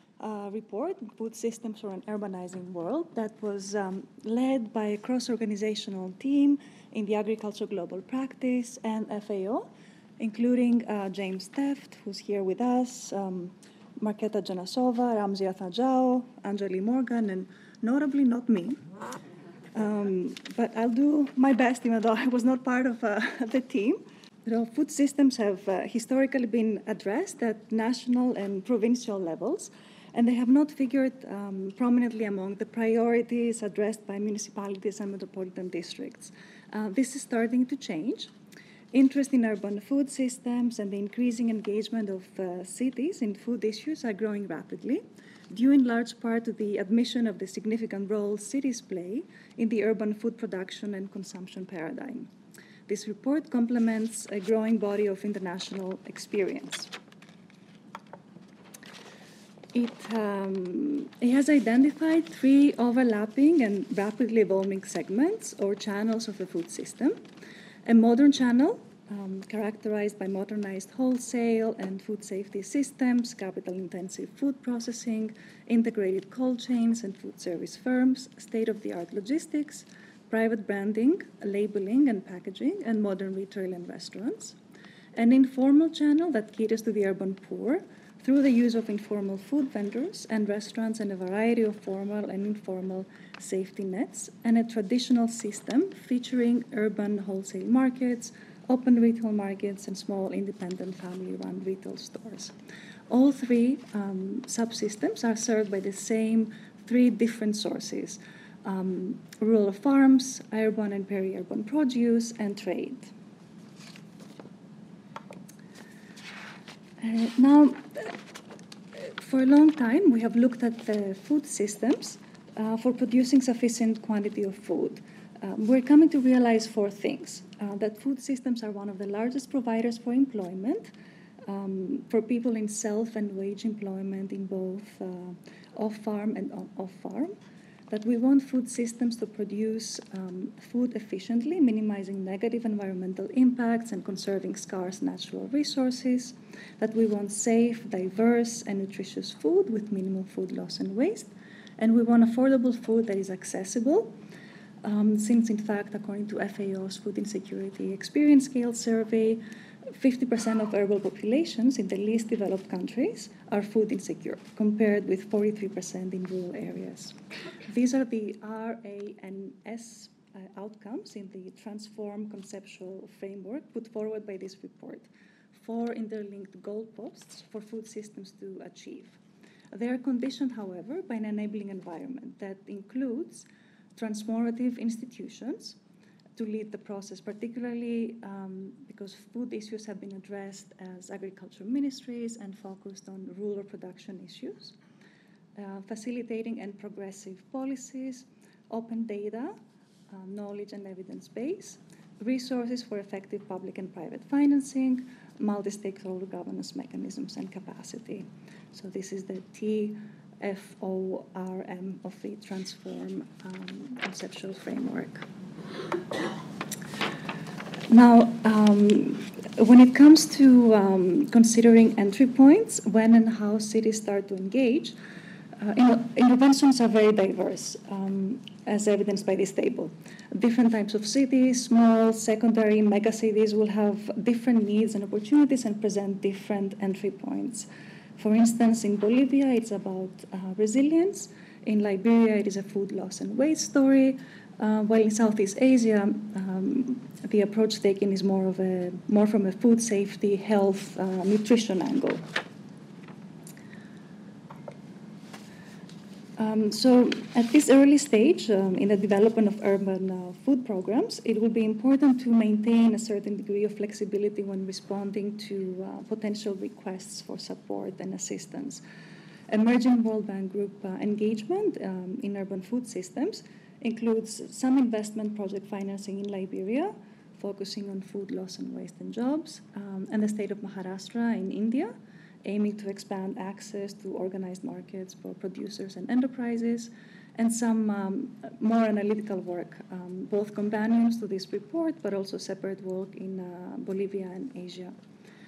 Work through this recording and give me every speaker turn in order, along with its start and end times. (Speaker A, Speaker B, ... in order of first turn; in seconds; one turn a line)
Speaker A: 0.2-9.7
Speaker A: 10.2-18.8
Speaker A: 19.7-38.3
Speaker A: 38.9-52.3
Speaker A: 52.9-56.9
Speaker A: 59.7-67.2
Speaker A: 67.8-84.6
Speaker A: 85.1-102.5
Speaker A: 103.1-113.1
Speaker A: 117.0-118.2
Speaker A: 119.0-130.9
Speaker A: 131.4-137.3
Speaker A: 137.9-154.1
Speaker A: 154.8-159.4
Speaker A: 160.0-167.1
Speaker A: 167.7-179.2
Speaker A: 179.7-185.8
Speaker A: 186.3-194.8
Speaker A: 195.6-199.5
Speaker A: 200.1-215.2
Speaker A: 217.9-224.9
Speaker A: 225.6-252.2
Speaker A: 256.4-268.8
Speaker A: 269.5-294.9